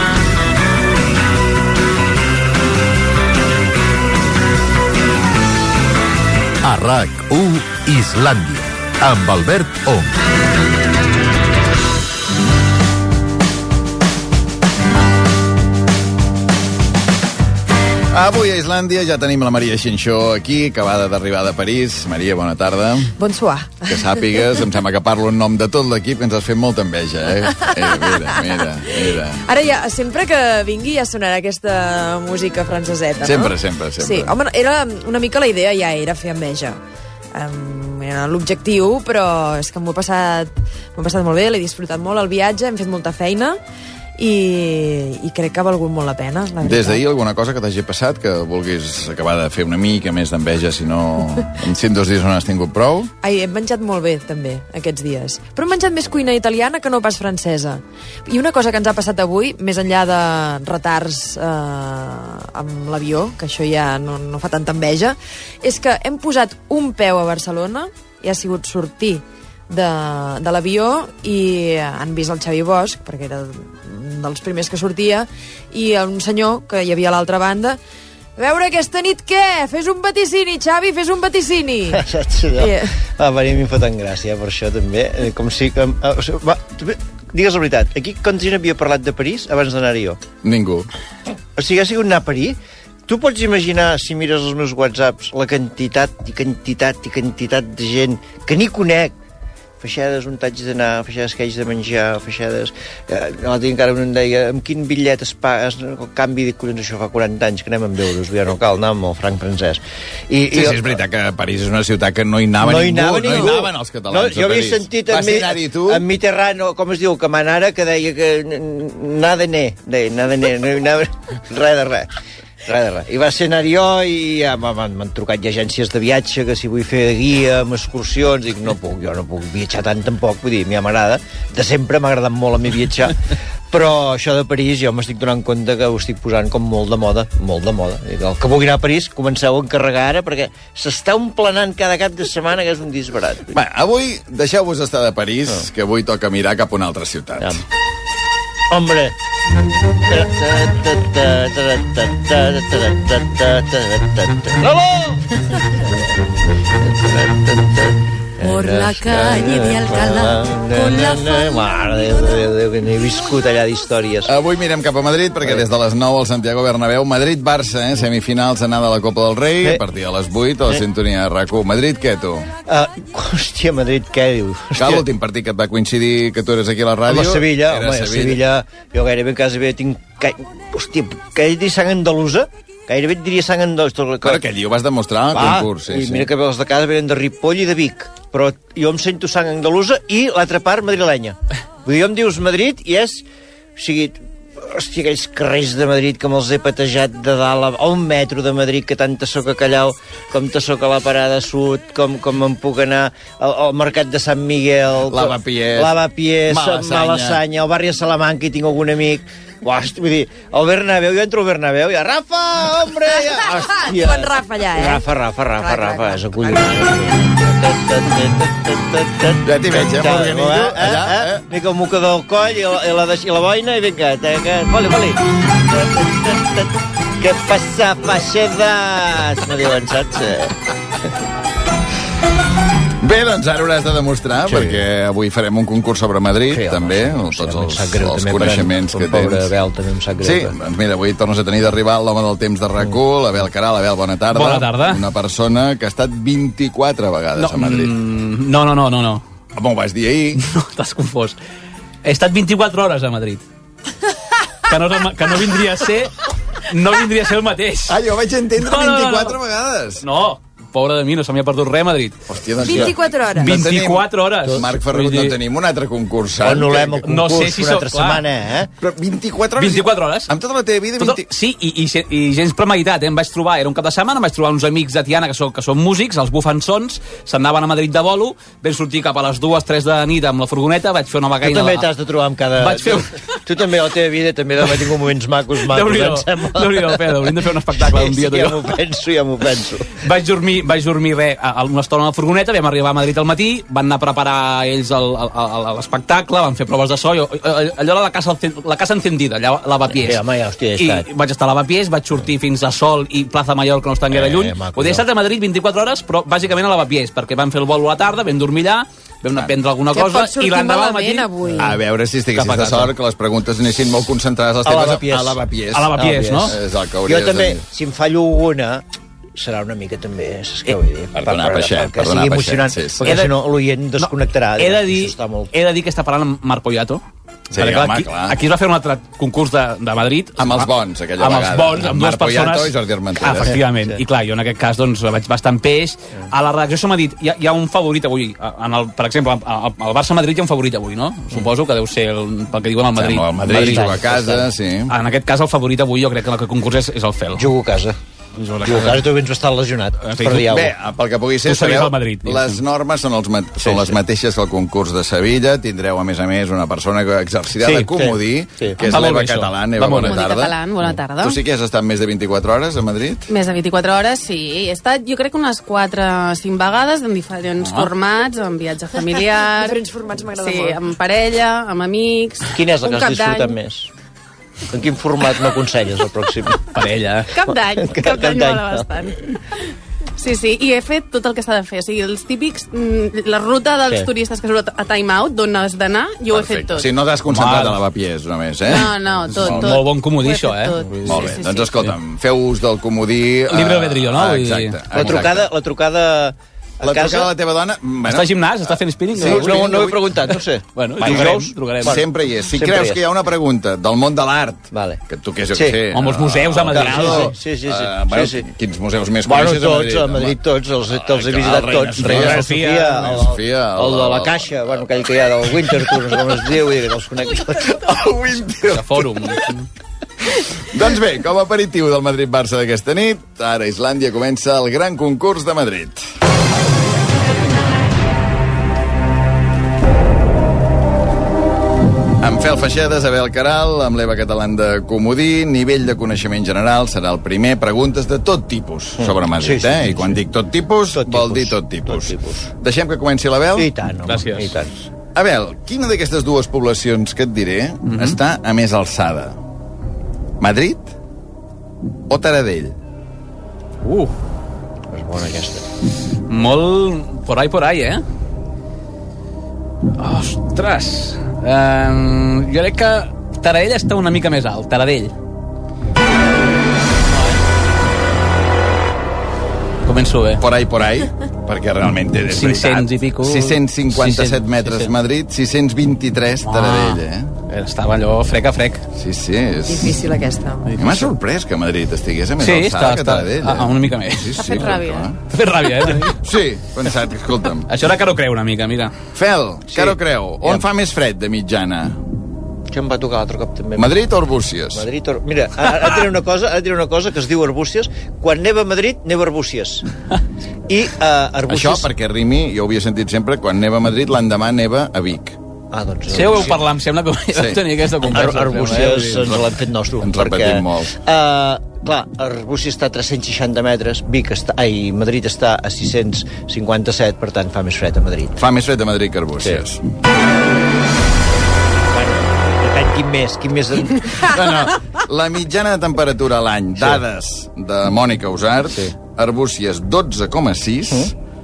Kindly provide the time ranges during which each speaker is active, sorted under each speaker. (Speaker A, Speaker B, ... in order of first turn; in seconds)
Speaker A: 6.6-10.2
Speaker B: 18.1-23.1, 23.9-29.4, 33.2-34.4, 46.6-53.1, 90.4-90.9, 110.5-116.0, 143.5-147.6, 164.3-172.5, 174.8-178.4, 184.2-186.3, 205.1-205.9, 206.5-207.4, 219.4-221.4, 233.0-239.5, 240.2-247.9, 249.6-250.4, 257.9-260.0, 262.3-267.1, 268.8-271.2, 311.6-315.9, 316.4-317.6, 321.1-323.1, 327.5-328.4, 330.4-333.5, 343.0-344.9, 350.4-360.5, 361.2-363.2, 386.3-389.8, 391.1-395.5, 396.8-400.1, 401.0-410.4, 410.9-414.8, 417.8-419.0, 420.7-426.0, 432.2-443.7, 445.1-449.4, 450.4-450.9, 452.1-452.8, 470.4-477.3, 478.9-480.0, 480.8-485.2, 486.2-487.7, 489.1-492.0, 493.8-494.8, 501.5-505.4, 507.4-507.6, 508.5-509.3, 510.0-510.9, 518.4-519.8, 524.3-531.1
Speaker C: 23.2-24.2, 29.4-36.8, 37.4-43.6, 44.2-47.0, 53.2-77.8, 78.4-82.0, 82.6-82.9, 213.4-215.1, 215.6-216.8, 262.6-263.6, 309.9-311.8, 369.0-370.8, 372.9-373.3, 479.7-480.8
Speaker D: 81.9-90.2, 91.6-99.1, 99.8-110.9, 112.6-122.1, 122.7-143.5, 148.7-149.2, 150.1-156.1, 156.8-164.3, 172.7-175.1, 177.1-184.4, 185.3-193.2, 193.8-230.6, 234.5-234.8, 236.5-240.6, 266.4-268.7, 281.4-287.1, 287.8-289.9, 299.9-301.1, 304.1-305.1, 314.7-315.4, 316.0-318.9, 319.4-325.5, 343.5-344.5, 347.4-348.0, 348.6-350.7, 353.6-354.0, 357.6-358.8, 372.5-373.9, 374.7-376.6, 377.8-378.9, 394.9-397.3, 399.2-403.0, 404.7-405.0, 405.5-405.8, 406.6-408.4, 409.2-418.1, 439.0-440.2, 440.9-442.5, 443.6-444.9, 454.9-455.7, 489.7-490.6, 492.7-494.0, 494.8-499.9, 500.7-501.9, 505.7-506.6, 508.1-518.4, 521.9-524.3
Speaker E: 244.3-245.0, 247.4-249.2, 250.4-251.4, 252.0-253.4, 254.7-256.1, 256.7-258.0, 258.6-259.4, 260.0-262.2, 263.4-265.4, 267.0-268.2, 269.6-270.3, 271.0-281.9, 282.6-283.1, 285.6-288.7, 290.0-300.2, 300.8-311.6, 312.4-312.9, 315.7-316.6, 323.0-323.4, 324.0-327.0, 327.6-344.0, 344.9-347.5, 348.4-349.1, 350.1-350.5, 351.5-352.6, 358.8-360.2, 367.6-367.9, 376.7-377.3, 387.3-387.8, 389.3-391.3, 393.5-395.2, 398.1-399.9, 400.8-402.0, 405.9-407.3, 412.0-413.2, 418.7-419.7, 444.1-444.6, 447.9-448.2, 453.8-454.1, 456.3-458.0, 460.0-465.1, 467.1-467.4, 469.9-470.4, 472.3-474.9, 476.5-478.8, 480.7-481.1, 482.4-484.6, 485.3-486.2, 487.7-488.9, 506.1-509.4
Speaker F: 359.9-361.4, 363.3-369.8, 370.4-372.5, 377.3-379.2, 380.2-386.9, 388.7-391.7, 484.4-485.1